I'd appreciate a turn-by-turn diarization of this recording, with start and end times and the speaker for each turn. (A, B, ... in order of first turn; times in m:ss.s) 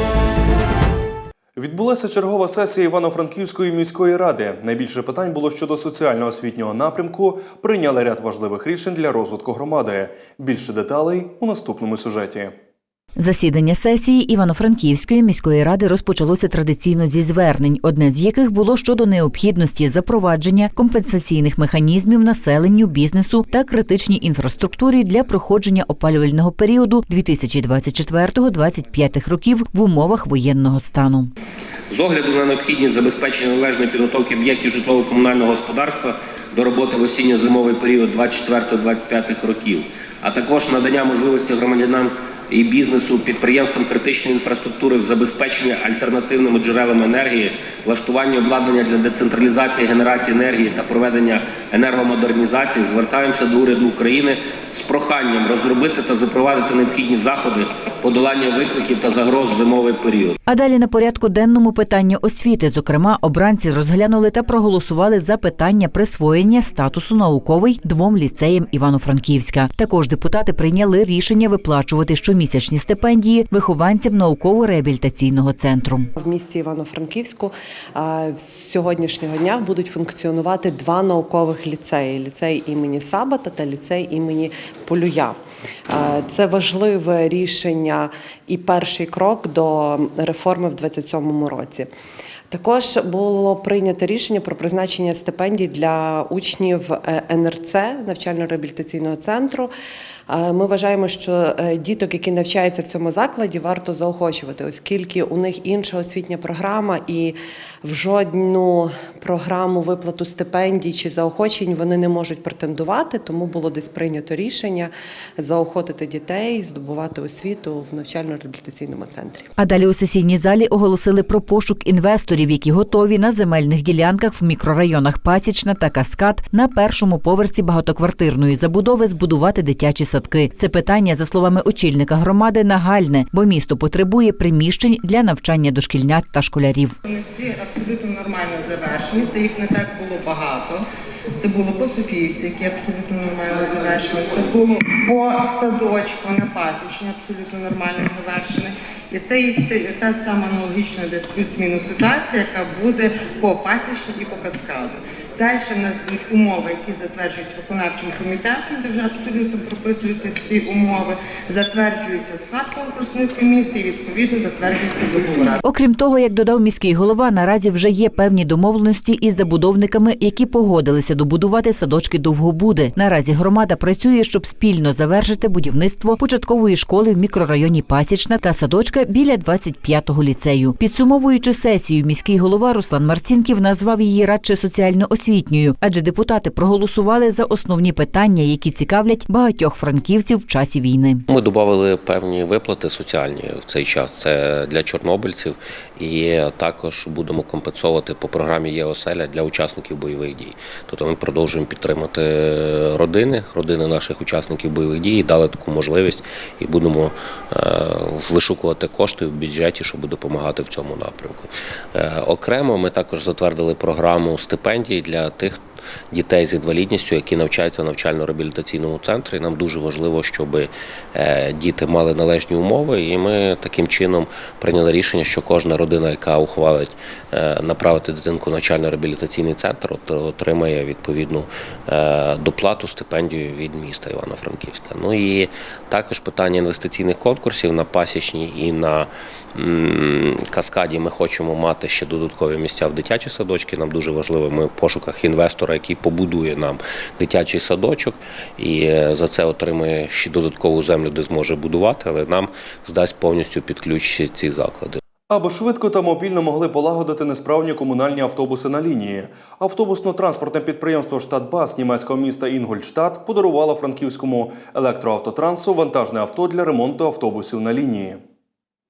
0:01.6-0:12.5 A
0:13.2-0:31.3 B
0:31.9-1:00.3 C
1:00.5-1:16.1 B
1:16.2-1:25.4 D
1:25.9-1:31.9 D
1:32.5-1:39.7 D
1:40.3-1:59.5 D
1:59.6-2:17.0 B
2:17.0-2:20.8 E
2:21.4-2:45.6 E
2:45.6-3:11.2 B
3:11.3-4:15.0 C
4:15.3-4:28.2 A